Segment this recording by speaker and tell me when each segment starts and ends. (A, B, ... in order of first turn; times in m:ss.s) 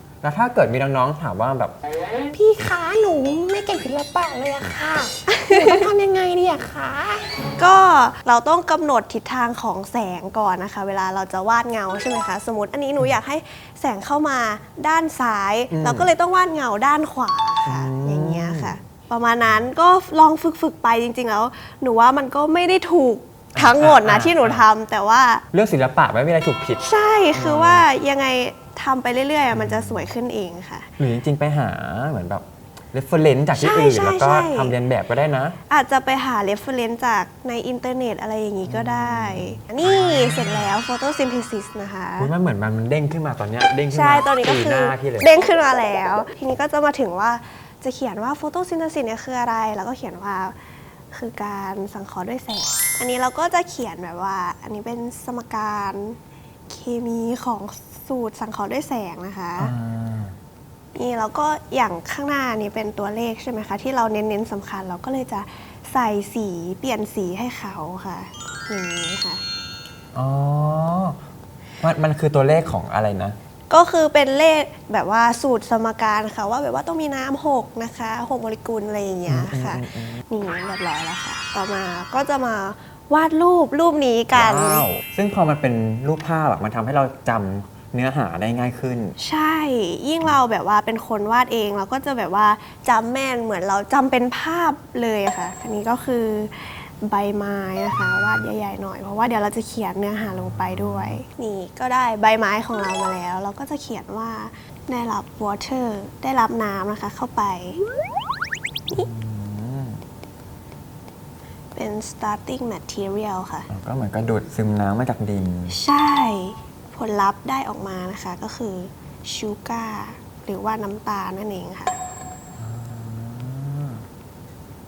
0:00.2-0:01.7 A
0:02.3-0:07.4 B
0:05.3-0:05.9 C
0:07.6-0:25.4 C
0:15.7-0:16.1 A
0:17.6-0:18.8 A
0:23.5-0:24.6 A
0:25.5-0:27.8 A
0:26.8-0:30.9 C
0:29.5-0:30.1 A
0:31.0-0:35.6 A
0:33.6-0:34.7 C
0:35.7-0:42.3 C
0:38.6-0:40.7 A
0:42.2-0:45.3 A
0:43.9-0:50.6 C
0:51.1-0:59.7 C
0:59.6-1:00.3 A
1:00.9-1:09.4 C
1:10.1-1:11.2 A
1:11.8-1:13.4 A
1:13.7-1:24.8 C
1:19.3-1:20.2 A
1:24.3-1:29.2 A
1:29.2-1:47.8 C
1:37.9-1:38.4 A
1:40.3-1:41.2 A
1:48.9-1:50.0 A
1:51.7-1:53.7 C
1:53.7-1:55.8 A
1:55.7-2:02.0 C
2:02.6-2:04.0 A